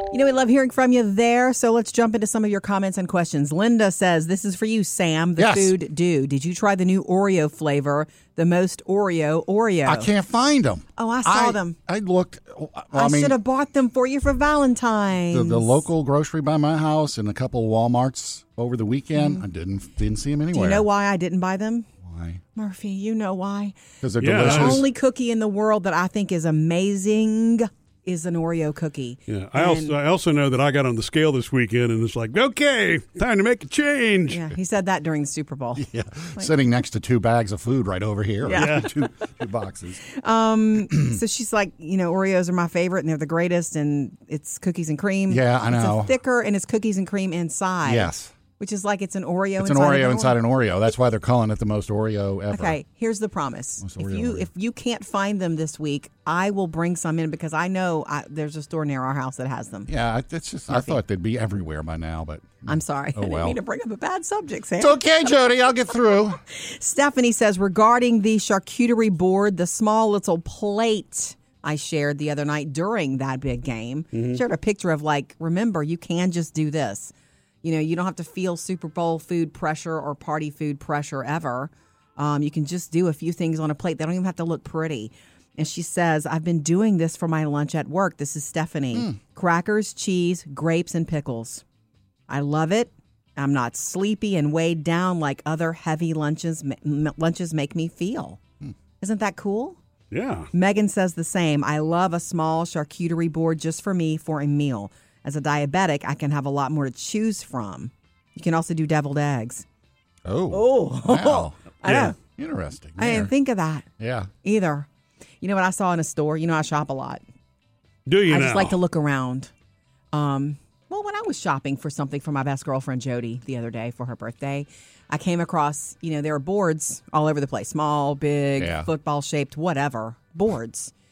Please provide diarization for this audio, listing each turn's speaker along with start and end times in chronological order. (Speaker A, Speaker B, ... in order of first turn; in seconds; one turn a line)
Speaker A: 0.1-10.1
Speaker B: 5.4-5.7
Speaker B: 9.8-13.4
Speaker A: 11.0-11.8
Speaker A: 12.9-15.8
Speaker B: 15.3-20.9
Speaker A: 19.1-19.4
Speaker A: 20.5-21.9
Speaker B: 22.0-22.4
Speaker A: 22.5-23.8
Speaker B: 24.0-24.9
Speaker C: 24.2-24.8
Speaker A: 24.3-29.9
Speaker C: 29.3-34.4
Speaker A: 34.3-36.5
Speaker B: 35.8-40.0
Speaker A: 38.4-38.9
Speaker C: 38.5-38.9
Speaker A: 40.0-50.4
Speaker B: 45.3-46.1
Speaker B: 47.9-48.3
Speaker B: 49.6-52.7
Speaker A: 52.5-59.9
Speaker B: 53.8-54.5
Speaker B: 59.9-63.6
Speaker A: 60.7-61.0
Speaker A: 62.6-65.0
Speaker B: 64.8-66.4
Speaker A: 66.5-77.1
Speaker C: 74.1-74.4
Speaker A: 77.6-91.6
Speaker A: 92.3-98.4
Speaker A: 99.0-99.8
Speaker C: 100.1-100.5
Speaker A: 100.5-109.6
Speaker B: 110.2-113.3
Speaker A: 110.5-112.2
Speaker C: 111.9-112.1
Speaker A: 113.0-113.9
Speaker B: 114.0-114.3
Speaker A: 114.4-114.9
Speaker A: 115.4-117.2
Speaker C: 118.0-118.8
Speaker A: 118.3-119.5
Speaker A: 120.1-130.9
Speaker B: 128.6-128.9